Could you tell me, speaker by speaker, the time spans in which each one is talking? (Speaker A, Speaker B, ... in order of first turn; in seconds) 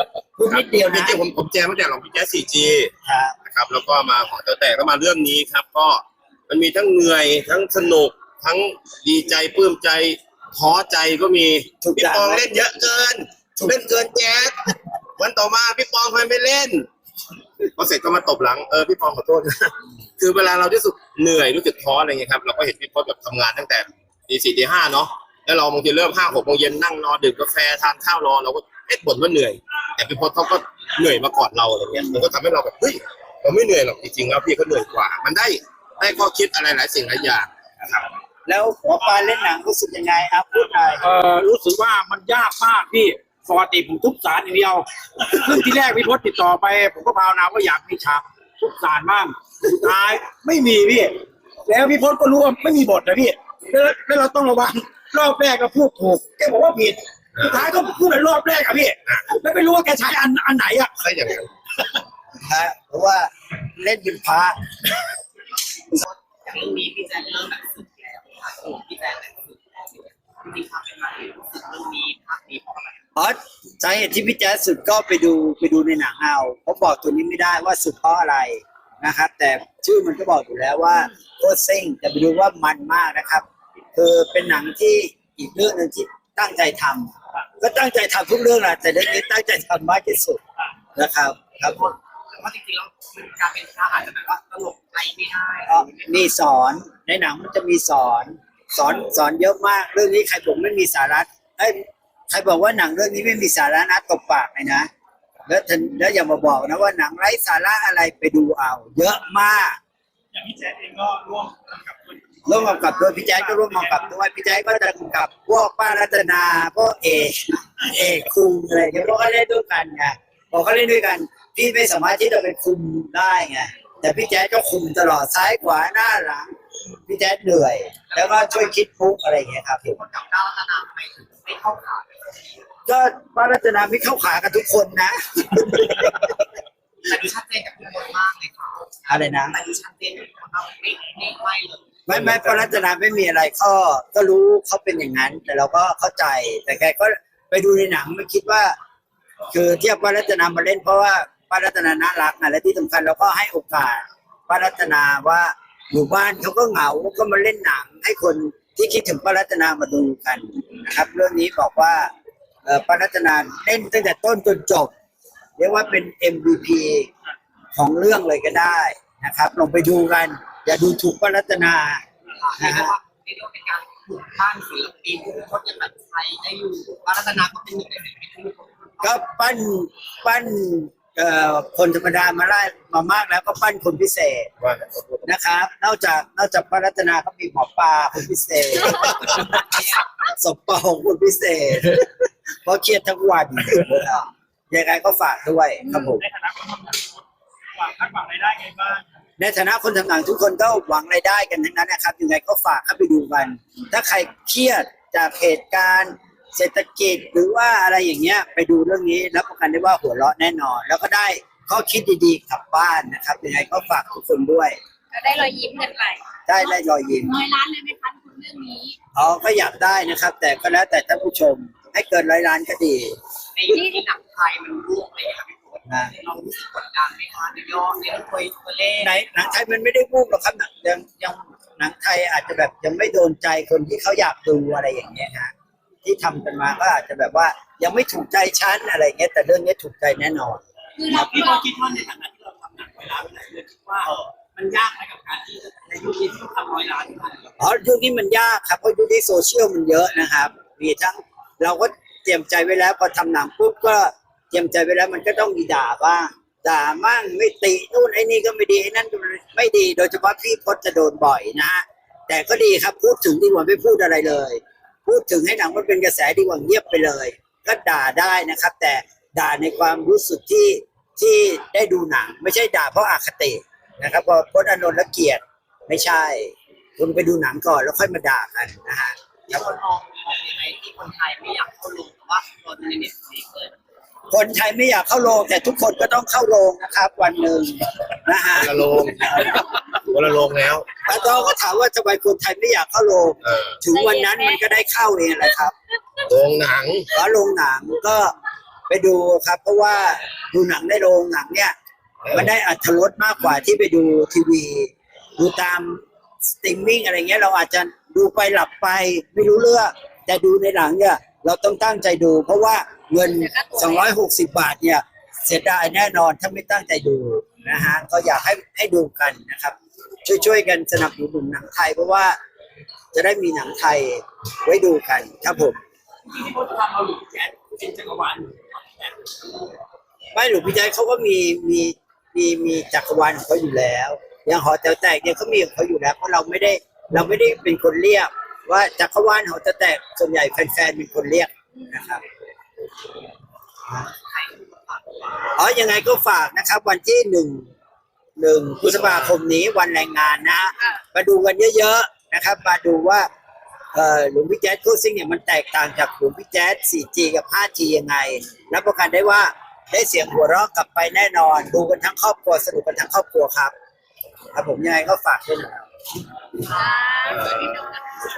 Speaker A: 0.4-1.2, 3.0-3.3, 11.8-12.4, 38.5-41.0, 62.4-64.6, 73.2-90.4, 91.0-91.9, 95.7-101.8, 102.3-104.9, 105.5-109.8, 112.5-126.5, 127.1-130.0, 132.9-136.4, 139.1-139.6, 142.1-148.8, 149.5-162.1, 162.6-164.9, 165.6-167.1, 167.8-172.0, 172.6-172.9, 179.0-184.5, 185.2-192.1, 192.6-196.2, 199.4-214.8, 216.5-217.3, 219.1-223.2, 225.9-226.1, 229.0-235.5, 236.0-240.6, 247.6-279.7, 284.3-289.7, 291.0-295.7, 297.1-298.3, 298.9-301.7, 302.3-322.4, 323.1-325.8, 330.3-342.2, 345.6-347.7, 348.4-353.3, 353.9-363.7, 364.5-365.9
Speaker B: 0.5-2.9, 3.5-14.6, 15.2-16.9, 17.8-19.6, 20.2-37.5, 57.4-57.6, 61.0-61.5, 184.6-185.2, 288.6-291.0, 293.4-293.7, 296.3-297.1, 302.2-302.5, 367.3-367.6
Speaker C: 41.0-51.1, 51.7-61.0, 326.3-328.5
Speaker D: 65.9-73.0, 91.7-96.1, 128.1-128.7, 129.9-132.1, 137.1-142.1, 172.3-179.2, 189.2-190.0, 223.6-229.3, 241.1-247.5, 279.5-283.8, 344.0-345.5
Speaker E: 110.3-114.1, 195.9-199.1
Speaker F: 195.8-196.2, 215.1-218.9, 223.7-224.1, 241.0-241.7, 293.9-294.7, 313.2-314.1, 366.7-368.1